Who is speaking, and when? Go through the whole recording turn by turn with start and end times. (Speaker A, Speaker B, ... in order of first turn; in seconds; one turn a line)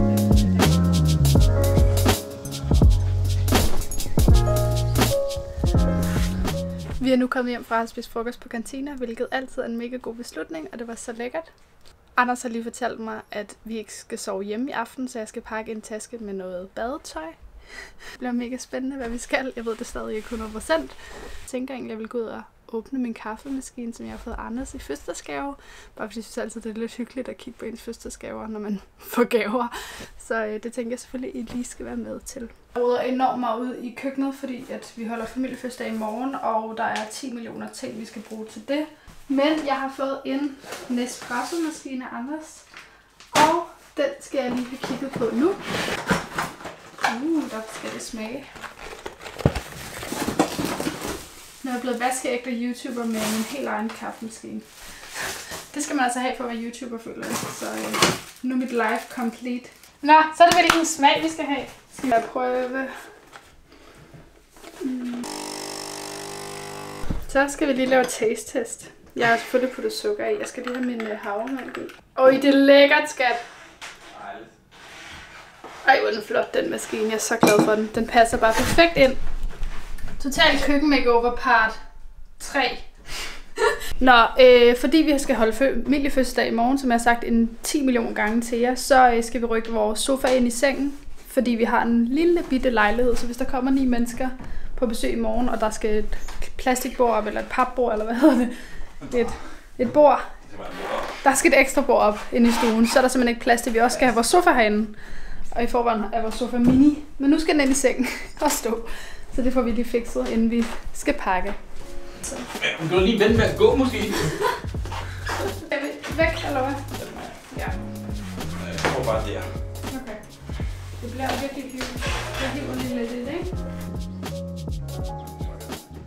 Speaker A: 7.0-11.5
Speaker A: 12.2-17.4
Speaker A: 18.1-42.7
Speaker A: 43.3-45.6
Speaker A: 47.0-48.5
Speaker A: 51.6-54.7
Speaker A: 55.2-62.9
Speaker A: 64.8-65.3
Speaker A: 67.3-73.4
Speaker B: 74.1-74.5
Speaker A: 75.8-79.2
Speaker A: 80.2-81.8
Speaker A: 82.4-82.9
Speaker A: 84.0-98.5
Speaker A: 99.0-100.3
Speaker B: 100.5-101.1
Speaker A: 101.2-105.0
Speaker A: 105.5-111.6
Speaker B: 112.5-114.4
Speaker A: 115.5-116.8
Speaker B: 117.0-117.4
Speaker A: 117.5-117.8
Speaker B: 118.5-119.5
Speaker A: 119.9-120.2
Speaker A: 121.0-123.5